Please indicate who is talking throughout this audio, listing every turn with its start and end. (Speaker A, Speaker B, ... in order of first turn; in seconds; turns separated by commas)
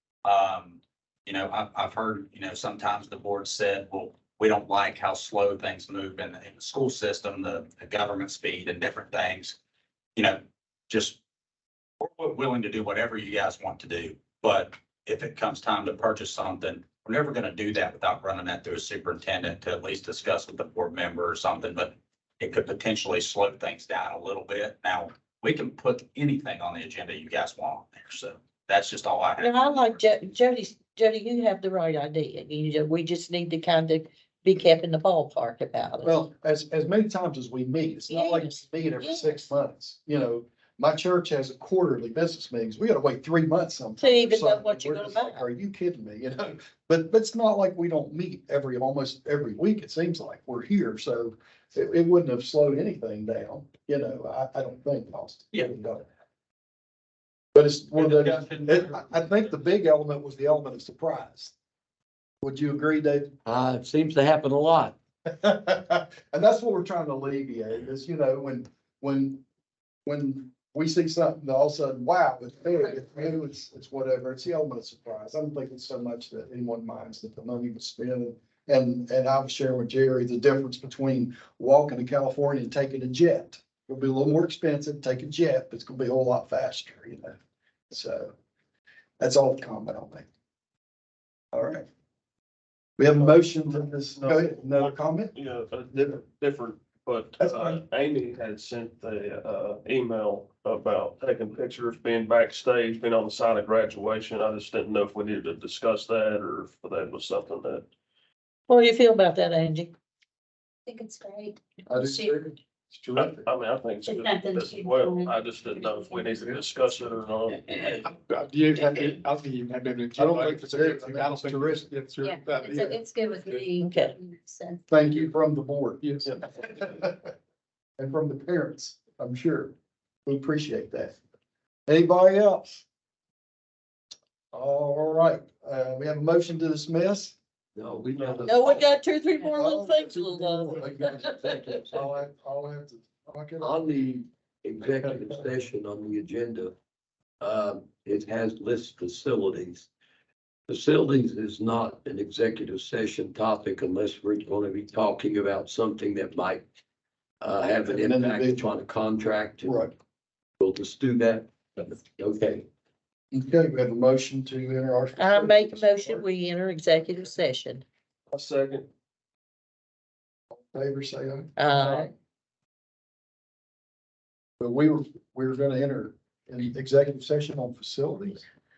Speaker A: 0.2-9.6, Speaker A: 10.2-11.2, Speaker A: 12.0-30.0, Speaker B: 29.4-36.1, Speaker C: 36.0-56.0, Speaker B: 38.1-39.4, Speaker B: 44.0-45.4, Speaker C: 57.5-61.5, Speaker A: 58.0-59.1, Speaker C: 62.4-63.4, Speaker D: 63.4-64.9, Speaker C: 65.2-69.4, Speaker C: 70.0-87.3, Speaker C: 87.9-88.3, Speaker C: 89.2-90.2, Speaker C: 91.5-91.8, Speaker C: 93.0-95.3, Speaker E: 93.1-107.8, Speaker C: 97.4-97.8, Speaker B: 108.7-109.9, Speaker F: 110.9-112.3, Speaker C: 111.9-113.4, Speaker E: 113.1-118.1, Speaker F: 114.0-116.3, Speaker G: 118.0-123.0, Speaker C: 120.1-121.9, Speaker F: 122.2-124.8, Speaker B: 123.8-124.1, Speaker C: 124.9-127.3, Speaker G: 126.0-126.4, Speaker C: 128.0-129.7, Speaker C: 130.2-131.1, Speaker C: 131.9-132.8, Speaker C: 134.5-137.3, Speaker D: 137.7-138.9, Speaker C: 138.4-138.8, Speaker B: 138.4-141.3, Speaker C: 139.5-143.7, Speaker D: 141.0-142.1, Speaker D: 143.6-146.7, Speaker D: 147.4-149.9, Speaker D: 150.7-156.6, Speaker D: 157.4-159.8, Speaker C: 157.9-158.7, Speaker C: 159.6-159.9, Speaker D: 160.6-162.7, Speaker C: 163.3-166.2, Speaker B: 165.1-167.8, Speaker E: 168.3-168.8, Speaker C: 170.5-171.5, Speaker B: 171.6-172.1, Speaker C: 174.6-178.4